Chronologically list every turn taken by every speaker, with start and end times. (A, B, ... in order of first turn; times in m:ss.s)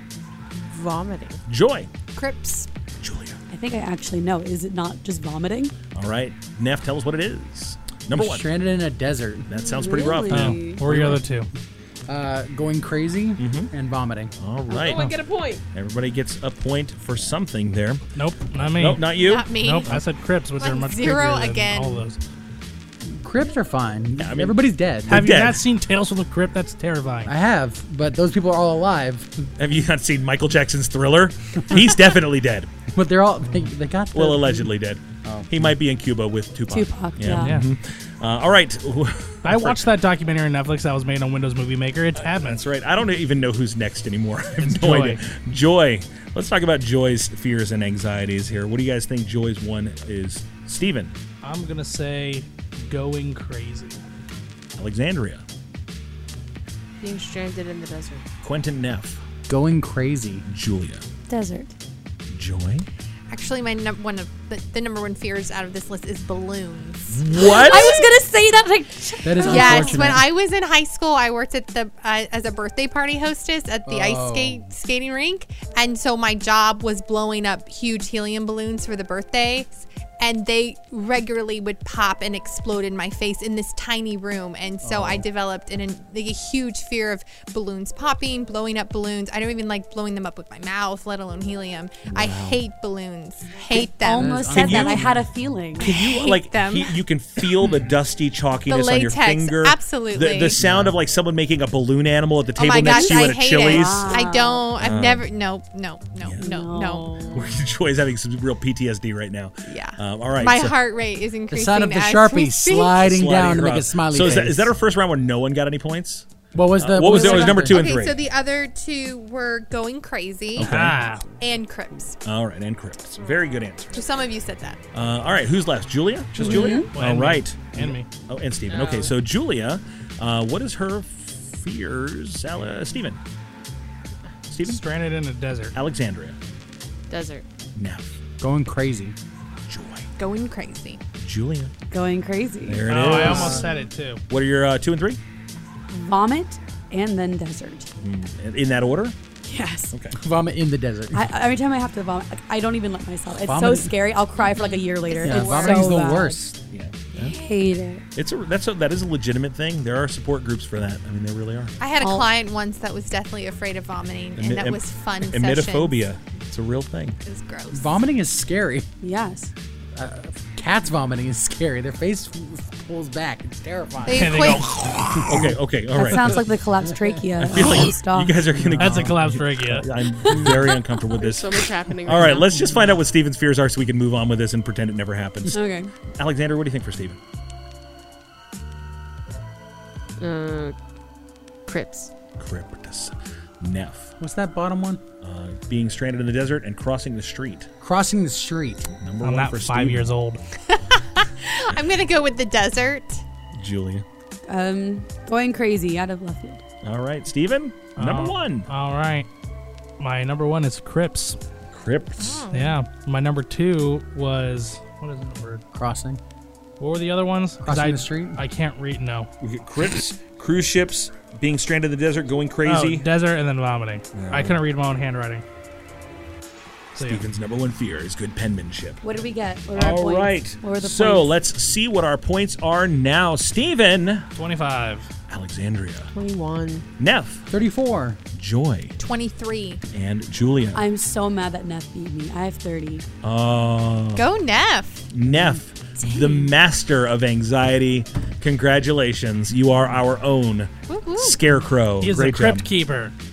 0:00.6-0:01.4 A
0:01.5-0:01.9 B
0:02.1-0:02.7 C
0:03.0-0:03.4 B
0:03.5-0:05.7 D
0:05.9-0:08.4 B
0:08.1-0:09.5 E
0:09.5-0:11.2 B
0:09.7-0:10.8 D
0:10.3-0:11.5 F
0:12.1-0:14.3 E
0:13.4-0:13.7 B
0:14.4-0:15.1 B
0:14.8-0:15.6 A
0:14.8-0:15.2 F
0:15.7-0:20.0 B
0:18.1-0:22.2 F
0:19.1-0:19.9 C
0:20.6-0:22.0 C
0:23.0-0:25.2 E
0:24.2-0:25.6 B
0:25.1-0:27.3 F
0:27.2-0:29.3 E
0:29.6-0:32.7 B
0:32.9-0:34.7 E
0:34.1-0:39.9 B
0:35.2-0:35.7 E
0:36.7-0:37.6 D
0:37.3-0:37.7 F
0:39.4-0:42.6 F
0:42.1-0:51.1 B
0:44.6-0:45.2 F
0:51.4-0:54.0 F
0:54.8-0:55.4 B
0:57.0-0:58.2 A
0:58.4-0:59.2 B
0:59.5-1:00.4 E
1:00.4-1:01.0 B
1:01.3-1:01.7 D
1:02.3-1:02.9 B
1:03.3-1:08.1 C
1:07.1-1:07.9 B
1:07.3-1:10.2 D
1:09.2-1:10.3 E
1:09.4-1:35.1 C
1:13.8-1:14.7 E
1:24.8-1:25.2 E
1:32.1-1:32.6 B
1:33.7-1:35.9 D
1:34.1-1:35.2 E
1:34.5-1:35.0 B
1:35.8-1:37.5 C
1:35.8-1:44.2 B
1:38.7-1:40.6 C
1:40.6-1:41.0 E
1:42.5-1:47.3 C
1:43.6-1:44.7 D
1:44.8-1:45.2 B
1:46.2-1:46.4 B
1:46.4-1:47.5 D
1:47.3-1:50.7 B
1:49.6-1:53.0 C
1:51.5-1:54.7 E
1:53.0-1:56.3 B
1:56.5-1:57.8 E
1:56.8-1:58.2 B
1:57.0-2:00.7 C
2:00.6-2:01.0 B
2:00.6-2:01.2 F
2:01.4-2:02.2 C
2:02.2-2:04.1 B
2:03.2-2:03.6 A
2:03.9-2:04.8 C
2:04.9-2:13.2 B
2:06.4-2:06.9 D
2:06.4-2:08.1 F
2:08.7-2:09.1 A
2:14.5-2:14.8 B
2:14.6-2:15.7 F
2:15.7-2:16.4 B
2:17.1-2:17.4 A
2:17.7-2:18.1 B
2:18.4-2:19.2 E
2:19.7-2:20.1 B
2:20.2-2:21.0 C
2:21.2-2:21.7 B
2:21.9-2:22.9 D
2:22.6-2:23.6 B
2:22.9-2:24.2 F
2:23.0-2:23.7 E
2:24.3-2:25.2 B
2:25.9-2:27.9 D
2:28.0-2:29.2 B
2:29.4-2:30.0 D
2:29.9-2:30.2 B
2:30.2-2:31.2 E
2:31.1-2:36.4 D
2:33.3-2:33.9 E
2:34.4-2:35.9 C
2:35.2-2:36.6 E
2:36.7-2:37.4 B
2:37.1-2:38.0 D
2:38.1-2:41.8 B
2:41.8-2:46.0 C
2:42.0-2:42.3 D
2:44.4-2:47.2 B
2:47.2-2:48.0 C
2:47.7-2:48.9 E
2:49.0-2:49.5 D
2:49.9-2:54.6 E
2:54.0-2:54.6 C
2:54.1-2:55.5 F
2:55.2-2:56.4 B
2:55.9-2:58.5 D
2:57.4-3:05.6 B
2:58.5-2:59.2 E
2:58.8-2:59.9 F
3:00.2-3:01.2 D
3:00.4-3:00.7 E
3:01.2-3:02.5 A
3:05.5-3:05.9 D
3:06.1-3:07.2 B
3:10.2-3:10.8 A
3:11.7-3:12.1 A
3:12.4-3:14.1 B
3:14.2-3:15.0 E
3:15.2-3:17.7 B
3:17.8-3:18.9 E
3:18.9-3:20.0 B
3:19.2-3:20.4 F
3:20.7-3:23.2 C
3:23.6-3:24.0 B
3:24.5-3:26.6 D
3:26.8-3:28.7 B
3:28.0-3:29.3 F
3:30.0-3:31.4 F
3:31.7-3:32.4 B
3:32.2-3:32.8 C
3:32.5-3:35.6 F
3:35.7-3:36.2 E
3:36.8-3:39.3 F
3:37.6-3:38.4 E
3:39.4-3:43.1 B
3:42.6-3:45.4 F
3:44.1-3:44.6 B
3:46.9-3:47.2 F
3:46.9-3:49.2 B
3:49.0-3:51.4 D
3:49.7-3:54.3 B
3:54.3-3:55.1 F
3:55.3-3:56.1 B
3:56.1-3:56.8 A
3:57.0-3:57.5 B
3:57.5-3:58.2 E
3:58.3-3:59.0 B
3:59.0-3:59.8 C
3:59.9-4:00.8 B
4:00.7-4:03.0 D
4:03.2-4:04.3 B
4:04.2-4:05.1 C
4:05.1-4:12.7 B
4:05.3-4:05.6 E
4:06.1-4:06.5 D
4:10.9-4:11.4 C
4:12.0-4:13.1 F